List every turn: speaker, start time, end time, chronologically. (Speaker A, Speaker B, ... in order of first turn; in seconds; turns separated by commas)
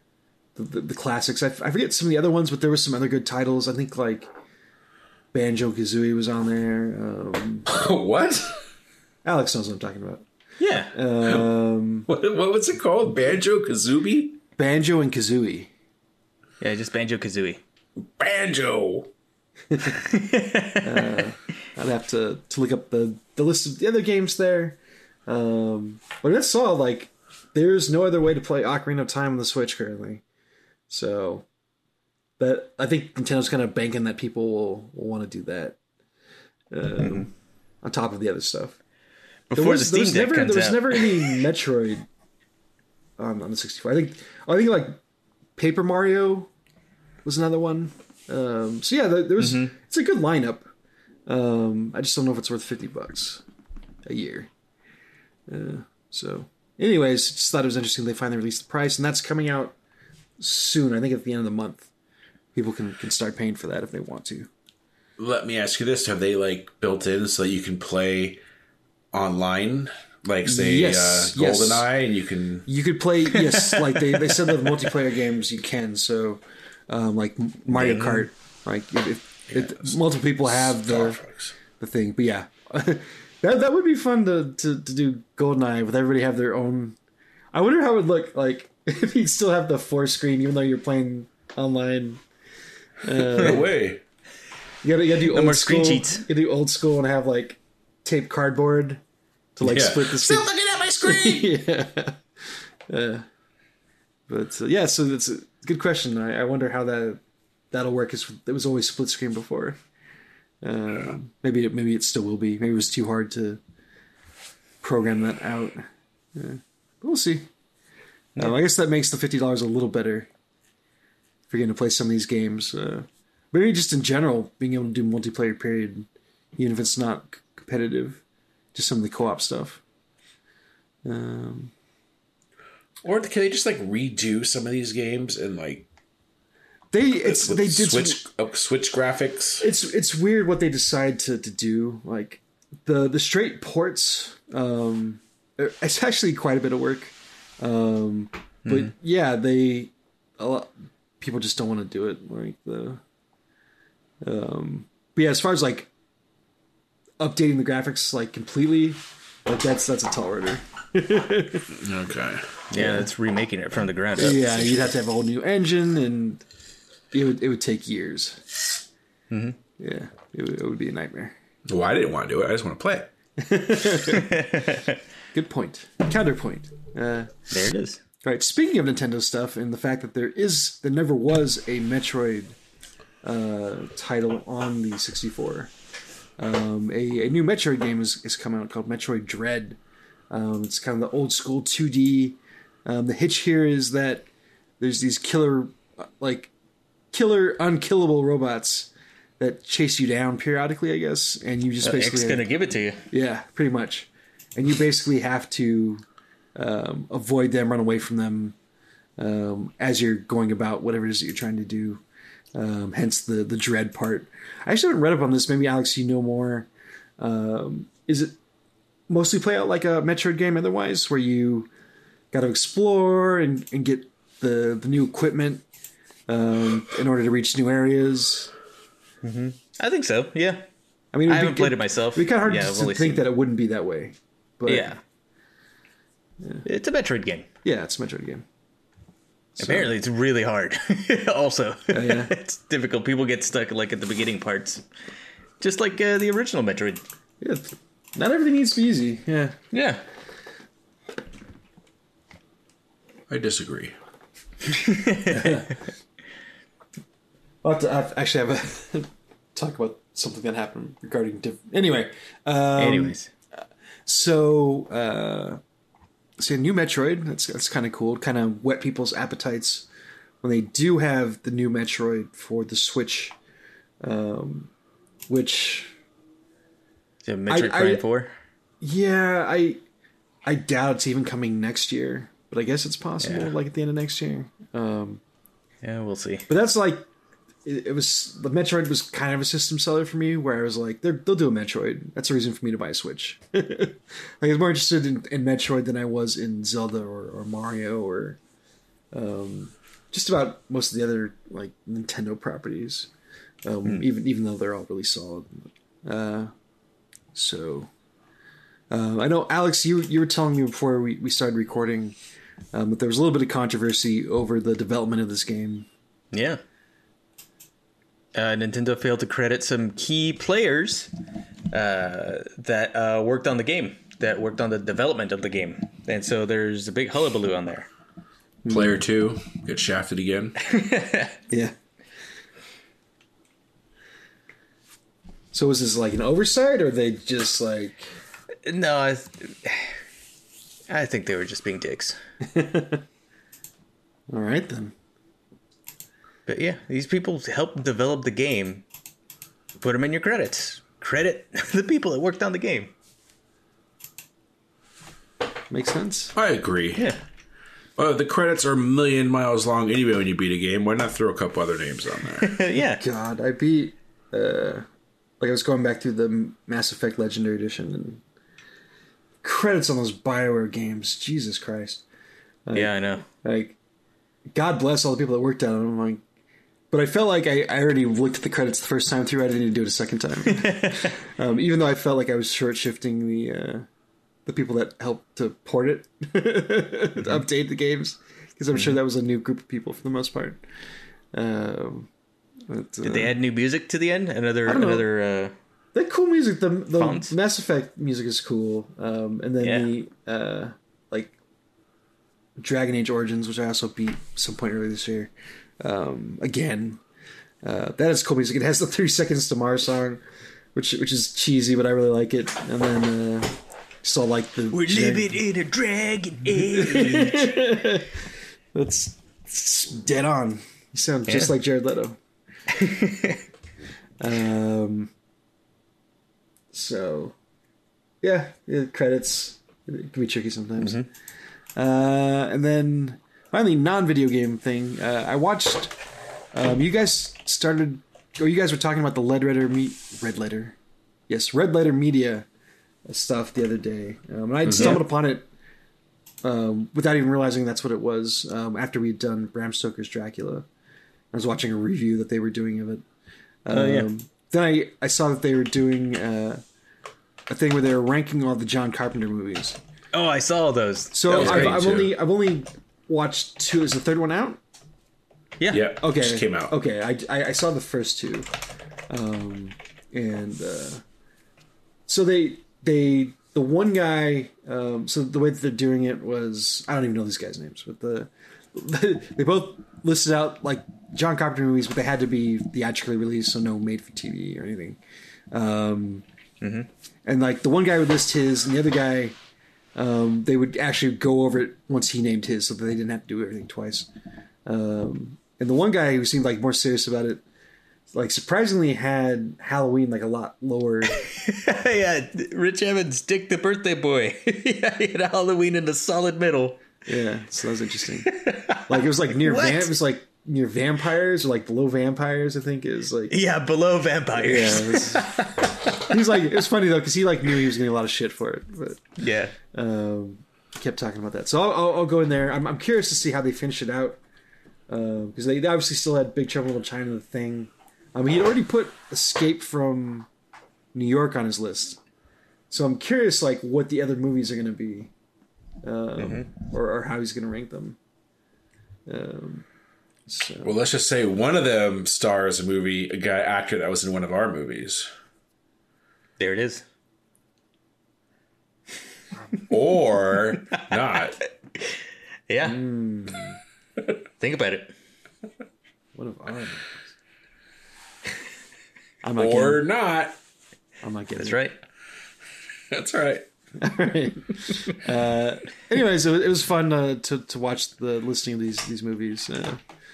Speaker A: 0.6-4.3, Speaker A: 5.3-7.7, Speaker B: 7.7-8.6, Speaker A: 9.2-10.2, Speaker C: 10.6-10.9, Speaker A: 10.9-12.1, Speaker B: 11.2-11.5, Speaker B: 12.1-14.4, Speaker A: 14.6-15.7, Speaker C: 16.6-17.6, Speaker B: 18.0-19.1, Speaker A: 19.7-20.0, Speaker C: 19.9-21.2, Speaker A: 20.8-30.2, Speaker A: 30.9-31.4, Speaker A: 32.4-35.8, Speaker A: 36.7-38.8, Speaker C: 37.0-37.3, Speaker C: 39.5-41.4, Speaker A: 39.5-42.0, Speaker A: 43.2-45.0, Speaker A: 45.6-46.5, Speaker A: 47.2-50.7, Speaker C: 49.4-49.7, Speaker A: 51.3-53.4, Speaker A: 54.0-54.5, Speaker A: 55.5-59.8, Speaker A: 60.4-61.9, Speaker A: 62.5-64.5, Speaker B: 65.2-68.4, Speaker B: 69.1-72.7, Speaker A: 70.4-71.9, Speaker A: 72.7-81.2, Speaker C: 73.4-74.4, Speaker C: 77.7-78.3, Speaker B: 79.5-81.5, Speaker A: 81.8-87.0, Speaker A: 87.5-92.2, Speaker A: 93.0-93.7, Speaker B: 93.3-94.0, Speaker A: 94.8-99.0, Speaker C: 95.3-96.2, Speaker A: 99.5-100.5, Speaker B: 99.6-101.5, Speaker A: 101.0-103.2, Speaker A: 104.3-107.2, Speaker A: 107.7-109.8, Speaker A: 110.6-113.6, Speaker A: 114.8-117.5, Speaker A: 118.4-120.3, Speaker A: 121.5-128.2, Speaker A: 128.7-129.8, Speaker A: 131.0-131.7, Speaker B: 133.0-135.9, Speaker A: 136.9-138.2, Speaker B: 137.2-139.7, Speaker A: 139.6-153.0, Speaker C: 148.7-148.9, Speaker A: 154.2-155.9, Speaker A: 157.2-161.7, Speaker B: 161.7-162.6, Speaker C: 162.7-164.9, Speaker A: 162.8-163.1, Speaker A: 164.2-166.4, Speaker A: 167.1-168.4, Speaker C: 169.3-169.6, Speaker A: 169.8-171.3, Speaker B: 171.7-173.1, Speaker A: 173.4-174.5, Speaker C: 174.0-175.0, Speaker A: 175.3-177.5, Speaker C: 177.5-178.0, Speaker A: 178.2-182.6, Speaker A: 183.2-185.7, Speaker A: 186.4-189.8, Speaker A: 190.3-194.2, Speaker A: 194.8-196.5, Speaker A: 197.1-202.4, Speaker C: 201.8-203.0, Speaker A: 203.1-206.0, Speaker A: 206.6-208.6, Speaker A: 209.2-212.0, Speaker A: 212.5-218.3, Speaker A: 219.1-221.7, Speaker A: 222.3-225.6, Speaker A: 226.3-228.5, Speaker C: 229.2-230.7, Speaker A: 231.1-234.9, Speaker C: 231.3-233.3, Speaker C: 234.7-235.0, Speaker C: 236.6-237.4, Speaker A: 237.6-238.4, Speaker A: 239.6-239.9, Speaker C: 239.6-244.8, Speaker A: 241.9-242.3, Speaker C: 245.6-247.0, Speaker A: 247.4-249.6, Speaker C: 249.7-250.0, Speaker B: 253.3-253.9, Speaker C: 254.7-255.7, Speaker A: 255.3-255.7, Speaker A: 257.6-263.2, Speaker C: 262.8-263.3, Speaker A: 264.1-265.6, Speaker A: 266.4-269.9, Speaker A: 270.4-273.3, Speaker A: 274.0-274.7, Speaker A: 275.3-275.9, Speaker C: 277.2-278.3, Speaker A: 277.5-278.0, Speaker A: 278.8-279.8, Speaker A: 280.4-285.2, Speaker C: 283.2-283.5, Speaker C: 285.8-286.4, Speaker A: 286.5-287.1, Speaker A: 287.6-298.4, Speaker A: 299.1-303.1, Speaker A: 303.6-306.5, Speaker A: 307.3-307.9, Speaker A: 308.9-312.1, Speaker A: 312.7-315.9, Speaker C: 316.3-316.6, Speaker C: 318.3-321.1, Speaker C: 321.7-327.9, Speaker A: 328.6-329.0, Speaker B: 328.7-330.6, Speaker C: 330.6-331.4, Speaker A: 335.5-338.1, Speaker C: 338.6-339.9, Speaker C: 340.9-342.2, Speaker A: 342.4-343.0, Speaker A: 344.3-344.9, Speaker C: 346.4-348.9, Speaker C: 349.8-352.9, Speaker A: 355.7-356.3, Speaker B: 356.3-357.1, Speaker B: 358.0-362.6, Speaker C: 362.4-363.0, Speaker A: 363.0-364.8, Speaker A: 365.4-368.2, Speaker A: 369.4-372.0, Speaker A: 372.7-373.8, Speaker C: 372.7-373.2, Speaker A: 374.5-376.2, Speaker A: 376.9-383.9, Speaker C: 380.4-381.2, Speaker A: 384.4-390.6, Speaker C: 388.7-389.0, Speaker A: 391.3-392.1, Speaker A: 392.7-393.4, Speaker C: 393.0-395.5, Speaker A: 394.6-395.1, Speaker A: 395.9-401.3, Speaker C: 396.9-397.3, Speaker C: 399.6-399.9, Speaker A: 402.6-407.0, Speaker A: 407.6-410.2, Speaker A: 410.7-415.3, Speaker C: 414.7-417.8, Speaker A: 416.6-418.1, Speaker A: 418.7-422.2, Speaker C: 421.3-421.5, Speaker C: 422.7-423.4, Speaker A: 424.2-425.1, Speaker A: 426.7-427.3, Speaker A: 428.2-431.0, Speaker C: 430.8-431.1, Speaker A: 431.8-435.9, Speaker A: 436.5-440.8, Speaker A: 441.3-442.4, Speaker A: 443.1-445.4, Speaker B: 444.6-445.0, Speaker C: 444.8-445.0, Speaker A: 446.4-450.7, Speaker A: 451.3-453.0, Speaker A: 453.6-456.6, Speaker C: 453.7-454.1, Speaker A: 457.5-459.8, Speaker C: 460.1-461.8, Speaker A: 461.1-464.6, Speaker B: 461.3-462.1, Speaker B: 465.7-466.7, Speaker A: 466.0-468.5, Speaker A: 469.1-471.0, Speaker A: 472.1-485.0, Speaker A: 485.5-486.2, Speaker C: 486.6-486.9, Speaker A: 487.2-489.4, Speaker A: 489.9-494.1, Speaker A: 494.6-497.4, Speaker A: 498.1-501.2, Speaker C: 501.1-506.9, Speaker A: 507.1-508.3, Speaker C: 508.2-509.9, Speaker A: 508.9-513.4, Speaker C: 513.3-516.0, Speaker A: 514.4-519.0, Speaker C: 519.2-519.5, Speaker A: 519.7-524.2, Speaker A: 524.9-530.3, Speaker A: 530.9-532.0, Speaker A: 532.7-535.1, Speaker A: 535.8-538.0, Speaker C: 536.2-536.5, Speaker A: 539.1-539.6, Speaker A: 540.3-540.7, Speaker B: 540.6-545.1, Speaker C: 546.4-546.8, Speaker B: 549.7-551.4, Speaker C: 550.7-552.8, Speaker A: 552.6-553.5, Speaker C: 554.4-554.9, Speaker A: 556.1-557.0, Speaker A: 559.2-559.8, Speaker B: 559.4-560.4, Speaker A: 561.0-561.6, Speaker C: 561.4-561.8, Speaker B: 562.9-563.5, Speaker A: 563.8-569.8